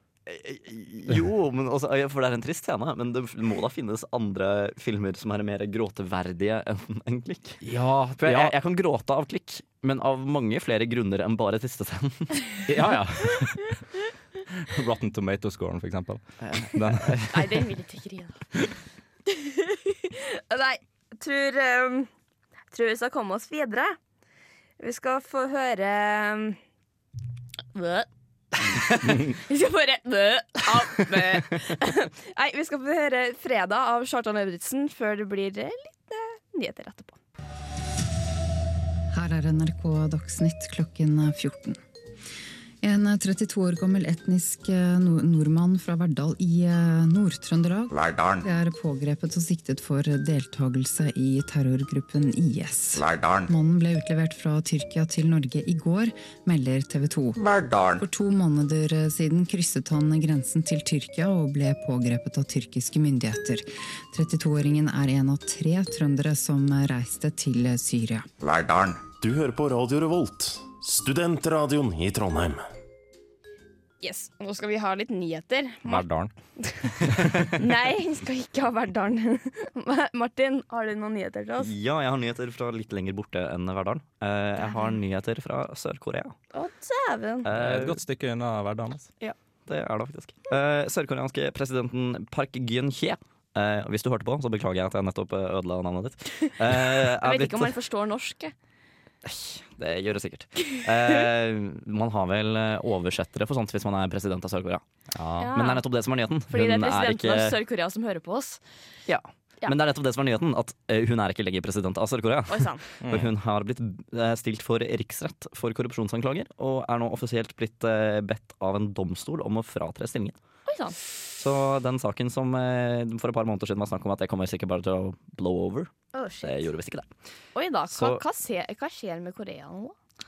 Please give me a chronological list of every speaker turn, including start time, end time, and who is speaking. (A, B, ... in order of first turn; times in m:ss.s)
0:00.3-0:07.6 A
0:07.6-0:08.5 B
0:08.2-0:12.4 A
0:12.7-0:13.8 B
0:14.5-0:17.5 B
0:16.4-0:17.3 A
0:17.3-0:18.4 C
0:19.3-0:22.1 C
0:22.7-0:24.0 C
0:24.8-0:26.6 C
0:27.7-0:28.1 C
0:29.1-0:37.2 C
0:39.1-0:41.8 D
0:42.8-1:08.3 D
0:48.0-0:48.4 E
0:53.0-0:53.4 E
0:57.4-0:57.9 E
1:08.4-1:12.6 E
1:14.0-1:16.1 C
1:15.8-1:16.3 B
1:16.6-1:21.7 C
1:17.1-1:17.6 B
1:21.6-1:26.4 A
1:24.6-1:25.0 C
1:26.5-1:27.5 C
1:27.4-1:28.0 A
1:27.5-1:29.1 B
1:29.2-1:37.8 A
1:36.7-1:38.5 C
1:39.2-1:44.8 A
1:45.2-1:45.5 B
1:45.4-1:45.8 C
1:45.5-1:47.6 A
1:46.5-1:48.6 C
1:49.1-2:00.4 A
1:52.5-1:52.8 C
1:53.0-1:53.3 B
2:00.7-2:01.0 C
2:01.4-2:07.1 A
2:06.1-2:06.7 C
2:07.6-2:10.0 C
2:07.9-2:08.2 A